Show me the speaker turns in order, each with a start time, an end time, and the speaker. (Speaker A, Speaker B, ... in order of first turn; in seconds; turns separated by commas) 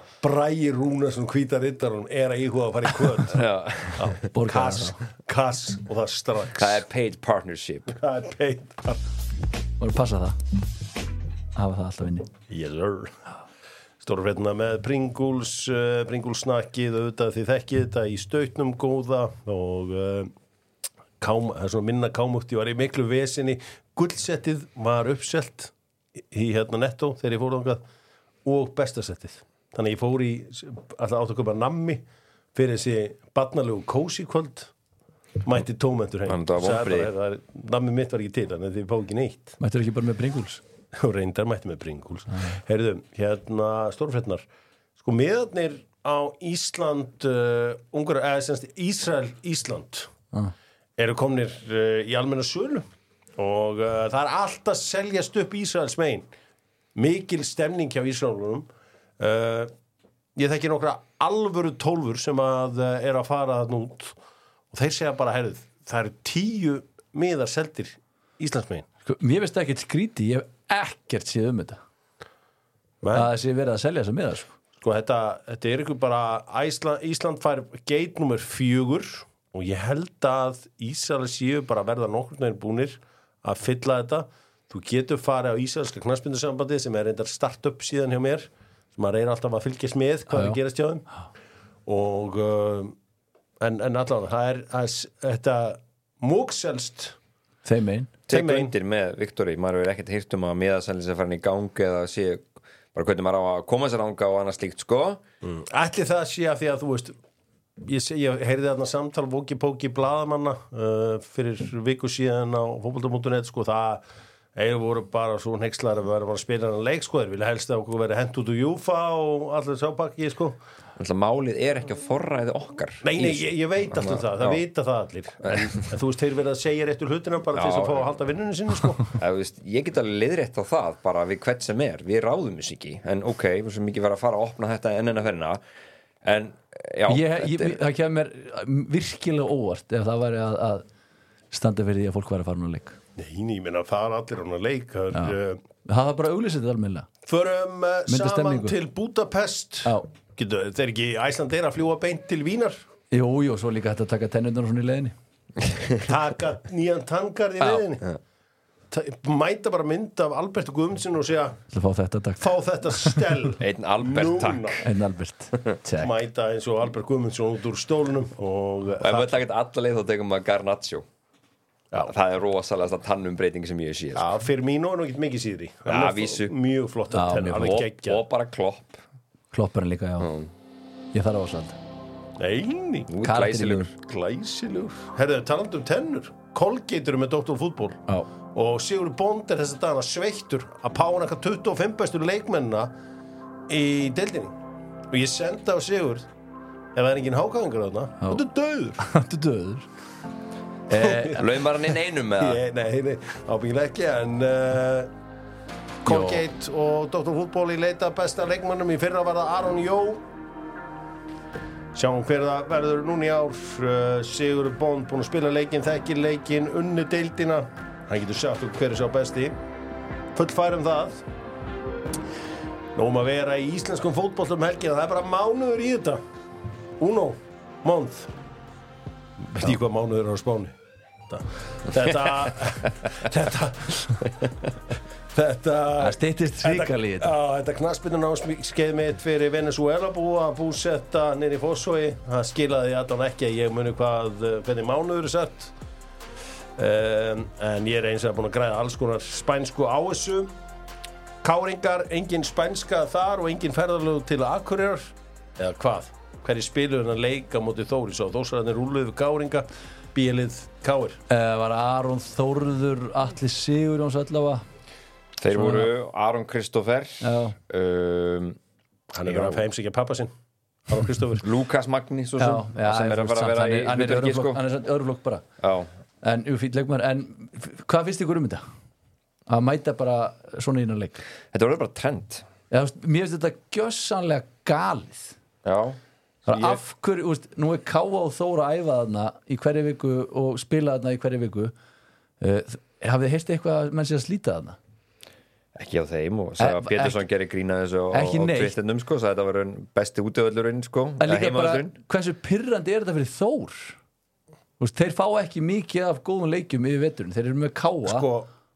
Speaker A: 0.2-6.8, Speaker B: 3.3-4.2, Speaker C: 4.2-5.0, Speaker B: 6.6-8.0, Speaker A: 8.0-9.0, Speaker C: 9.8-10.4, Speaker C: 11.6-12.3, Speaker A: 12.5-13.2, Speaker A: 14.0-20.3, Speaker A: 21.2-25.7, Speaker A: 26.3-27.8, Speaker A: 28.4-32.0, Speaker A: 32.5-34.7, Speaker A: 35.4-39.6, Speaker B: 36.3-37.1, Speaker C: 39.6-40.6, Speaker A: 40.9-44.5, Speaker A: 45.0-50.1, Speaker A: 51.0-52.9, Speaker A: 53.4-56.3, Speaker A: 57.0-58.7, Speaker A: 59.2-59.7, Speaker A: 60.4-64.2, Speaker A: 64.7-68.9, Speaker C: 69.1-71.8, Speaker A: 73.0-73.3, Speaker C: 73.1-74.5, Speaker A: 74.8-91.1, Speaker C: 90.3-90.6, Speaker A: 91.9-93.0, Speaker A: 93.6-97.2, Speaker C: 97.7-98.1, Speaker B: 98.3-105.2, Speaker A: 98.3-98.7, Speaker A: 105.4-107.2, Speaker A: 107.8-114.0, Speaker A: 114.5-120.6, Speaker B: 121.0-124.6, Speaker A: 123.0-129.2, Speaker B: 127.5-128.1, Speaker B: 129.2-135.6, Speaker B: 136.2-137.8, Speaker C: 137.1-140.8, Speaker C: 141.5-143.0, Speaker A: 143.2-145.6, Speaker C: 145.1-147.1, Speaker A: 147.3-152.8, Speaker C: 148.1-148.8, Speaker C: 153.1-155.2, Speaker A: 156.0-158.1, Speaker A: 158.9-161.6, Speaker C: 161.7-163.3, Speaker A: 162.4-164.8, Speaker B: 163.6-164.8, Speaker C: 164.8-166.1, Speaker A: 166.0-169.4, Speaker B: 169.0-171.1, Speaker B: 172.0-174.3, Speaker A: 174.2-178.2, Speaker B: 175.9-176.5, Speaker C: 177.1-177.8, Speaker B: 177.5-179.0, Speaker C: 179.5-180.3, Speaker B: 180.2-180.5, Speaker C: 181.1-181.8, Speaker A: 182.4-183.1, Speaker B: 183.1-183.9, Speaker C: 183.2-183.9, Speaker A: 184.0-188.0, Speaker A: 188.5-192.9, Speaker A: 193.7-194.6, Speaker A: 195.1-196.3, Speaker A: 196.9-199.0, Speaker C: 199.0-199.9, Speaker C: 200.9-201.5, Speaker A: 200.9-201.4, Speaker B: 201.3-202.6, Speaker A: 202.4-205.1, Speaker A: 206.0-210.2, Speaker C: 206.1-206.4, Speaker A: 211.9-219.6, Speaker A: 220.4-221.2, Speaker A: 223.0-226.2, Speaker A: 227.0-228.3, Speaker A: 229.4-230.7, Speaker A: 231.3-234.5, Speaker A: 235.3-245.7, Speaker C: 236.0-237.3, Speaker A: 246.8-250.5, Speaker A: 251.4-261.2, Speaker C: 261.3-264.6, Speaker B: 265.4-268.6, Speaker C: 265.5-265.9, Speaker C: 267.2-267.6, Speaker A: 269.1-270.3, Speaker B: 269.2-269.6, Speaker A: 270.9-271.5, Speaker B: 271.4-274.6, Speaker C: 272.4-275.5, Speaker B: 275.6-275.9, Speaker C: 276.2-278.6, Speaker C: 279.5-281.2, Speaker B: 281.5-282.5, Speaker C: 282.7-285.4, Speaker B: 285.6-286.8, Speaker C: 286.5-291.7, Speaker C: 292.4-294.8, Speaker B: 295.8-301.9, Speaker C: 296.6-297.2, Speaker C: 298.1-298.8, Speaker C: 301.2-304.0, Speaker C: 304.8-308.3, Speaker A: 308.1-308.5